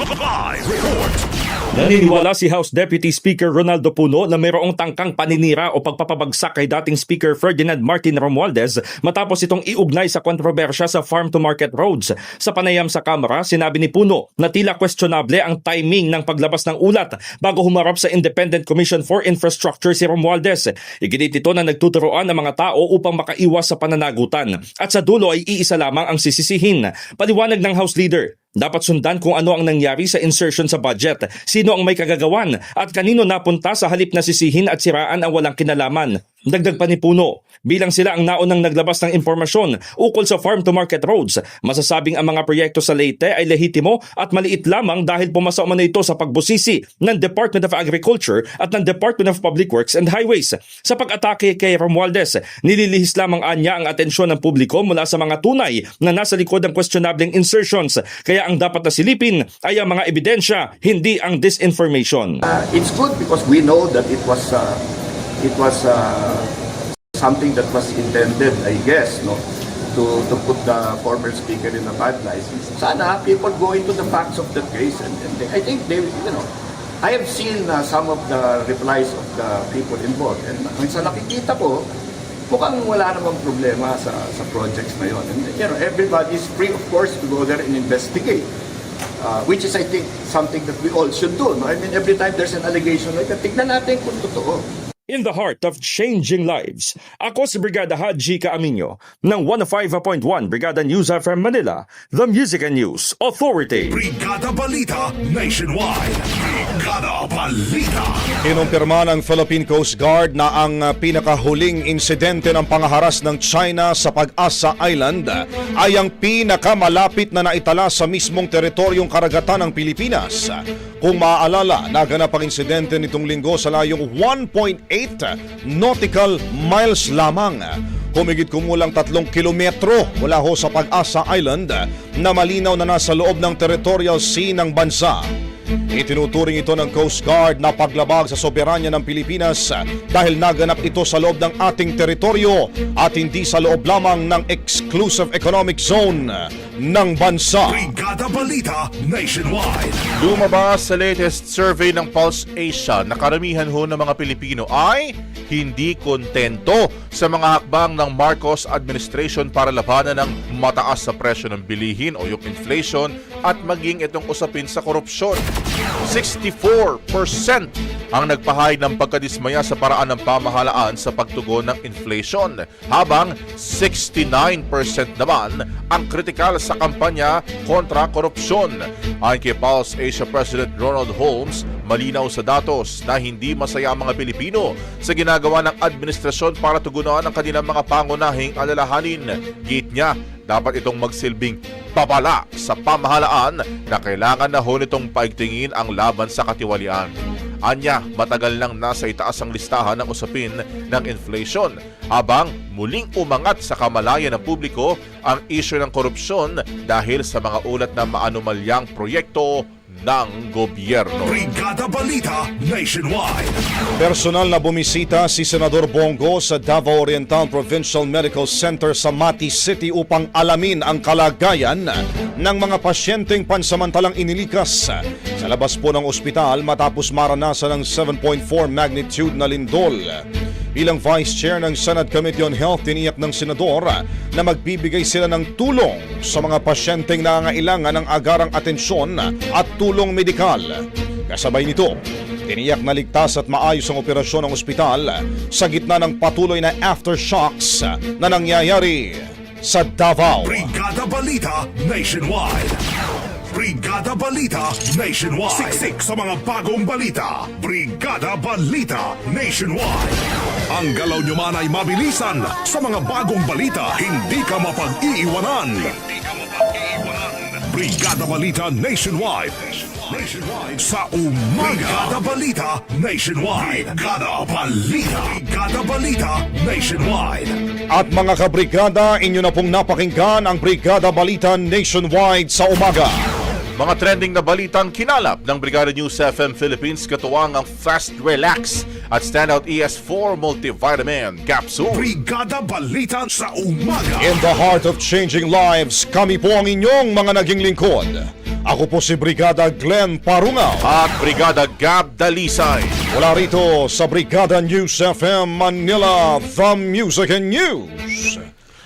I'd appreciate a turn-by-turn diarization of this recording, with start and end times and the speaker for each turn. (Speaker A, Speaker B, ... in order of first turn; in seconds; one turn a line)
Speaker A: 0.5-1.2
Speaker B: 1.7-62.4
Speaker C: 62.4-64.8
Speaker C: 65.4-66.4
Speaker C: 67.2-69.4
Speaker C: 70.0-76.5
Speaker C: 77.0-81.8
Speaker C: 82.5-88.5
Speaker C: 89.2-94.6
Speaker B: 95.1-104.0
Speaker A: 103.9-108.2
Speaker D: 108.4-135.2
Speaker D: 135.9-147.9
Speaker A: 147.7-150.0
Speaker E: 150.2-165.4
Speaker E: 166.1-197.1
Speaker E: 197.7-211.4
Speaker A: 211.2-213.6
Speaker D: 214.0-230.2
Speaker D: 230.8-250.7
Speaker A: 250.4-252.8
Speaker A: 253.5-260.2
Speaker A: 260.7-266.1
Speaker A: 267.6-277.6
Speaker D: 277.9-283.1
Speaker E: 283.8-292.1
Speaker A: 291.9-294.4
Speaker D: 294.2-300.9
Speaker E: 300.8-303.0
Speaker D: 303.1-308.4